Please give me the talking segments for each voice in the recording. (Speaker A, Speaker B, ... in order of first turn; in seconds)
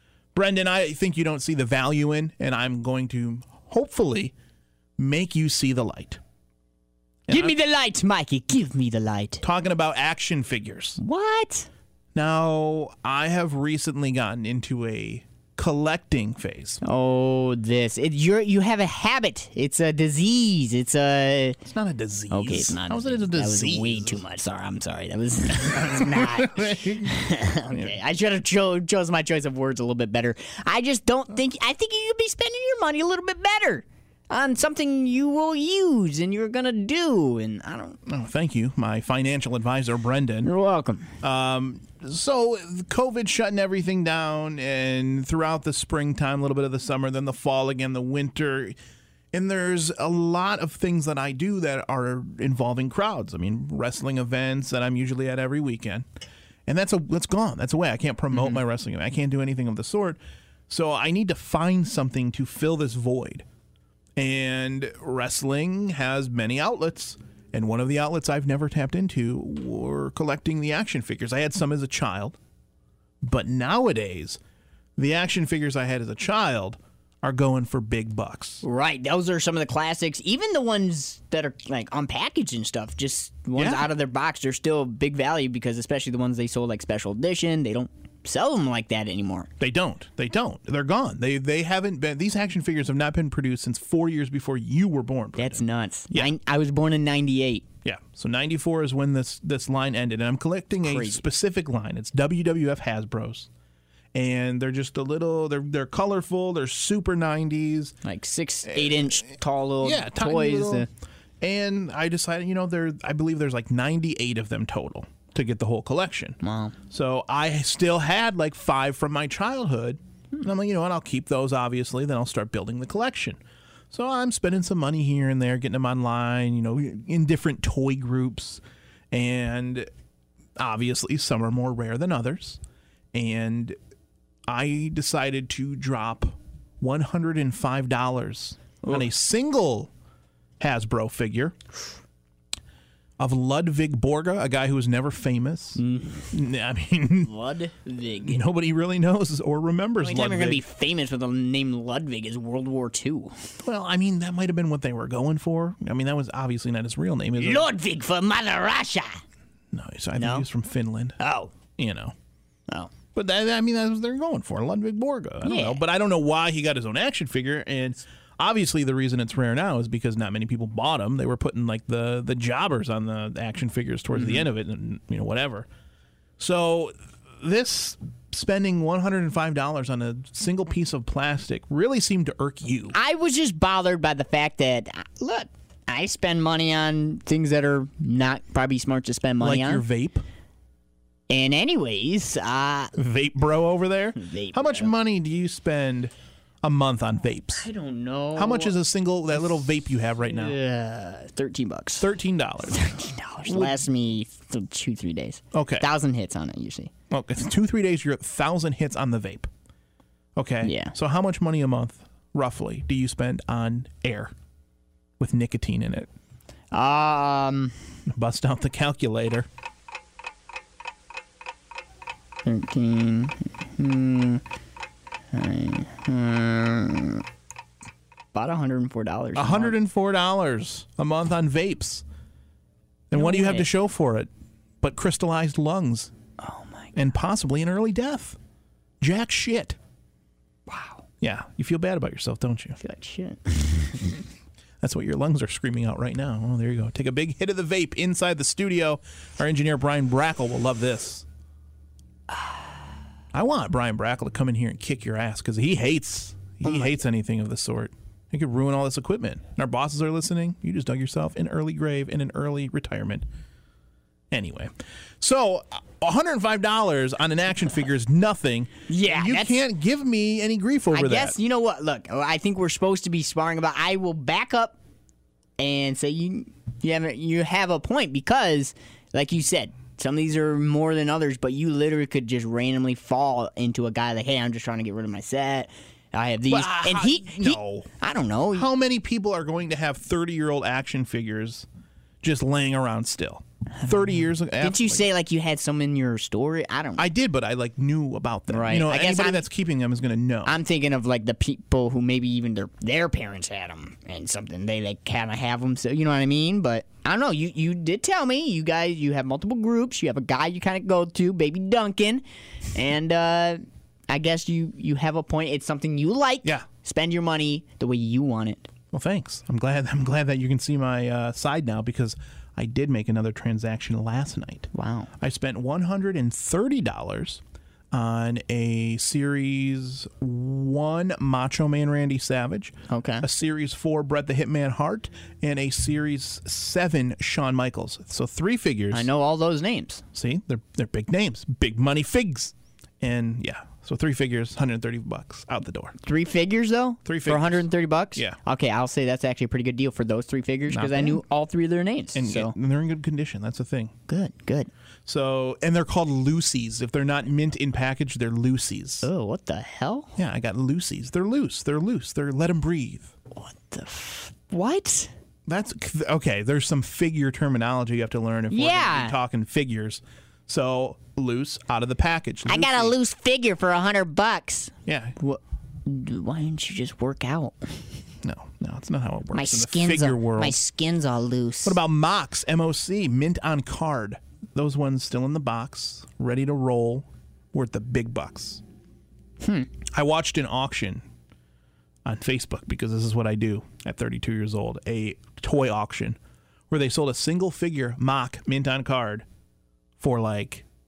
Speaker A: 0.3-4.3, 5.0-6.2, 7.3-7.6, 9.4-11.0, 12.2-16.8, 21.6-24.2, 25.9-27.1, 38.1-40.5, 41.2-48.8, 49.3-56.1, 56.7-63.5, 64.2-72.4, 73.2-74.4, 75.0-78.6, 83.6-83.9, 89.6-96.3, 97.8-103.5, 104.1-108.0, 108.7-110.9, 111.4-123.4, 123.9-129.9, 130.6-132.6, 133.1-133.8, 134.5-139.9, 140.6-141.6, 143.2-147.3, 148.2-150.6, 153.6-157.7, 159.7-161.2, 161.8-162.1, 163.1-175.7, 176.4-183.0, 189.4-190.2, 193.0-196.1, 196.6-197.7, 198.4-200.6, 202.0-202.9, 203.5-203.8, 205.5-205.9, 207.1-209.5, 210.4-214.3, 215.2-216.1, 218.1-219.5, 229.3-232.0, 233.1-234.3, 234.8-236.1, 237.0-238.4, 239.0-239.8, 241.2-242.8, 244.8-251.2, 253.3-263.3, 264.3-264.7, 265.2-271.4, 286.5-287.9, 288.5-291.7, 292.2-295.0, 297.0-300.6, 318.9-339.1, 340.1-346.0, 347.1-348.4, 350.7-351.2, 352.1-353.9, 355.1-359.1, 360.2-363.1, 365.5-372.9, 374.9-375.2, 378.2-380.6, 381.6-388.6, 389.9-391.1, 392.1-396.2, 396.7-399.2, 400.0-400.6
Speaker B: 7.3-9.4, 11.0-11.7, 16.8-21.6, 22.3-38.0, 40.4-41.1, 58.3-58.6, 78.6-89.5, 95.4-97.7, 100.8-101.2, 108.0-110.9, 116.4-116.8, 145.8-146.4, 147.2-148.4, 150.0-153.4, 157.4-159.2, 160.2-160.5, 161.2-161.5, 162.7-162.9, 165.4-165.8, 174.2-174.5, 182.9-189.8, 191.3-192.9, 194.2-194.9, 197.6-198.8, 199.3-199.7, 200.2-202.1, 202.7-206.9, 210.6-210.9, 216.7-217.8, 222.4-224.4, 225.3-227.2, 228.3-229.8, 233.1-233.7, 236.4-237.0, 240.7-241.0, 242.8-244.2, 256.7-256.9, 268.9-269.6, 270.9-274.8, 275.6-288.7, 294.6-297.1, 298.5-299.4, 300.5-313.6, 314.1-318.7, 324.7-325.1, 332.9-333.3, 338.9-340.0, 346.0-352.6, 354.1-354.7, 359.0-360.1, 363.4-365.1, 368.5-369.2, 372.5-377.8, 379.3-381.8, 389.4-389.7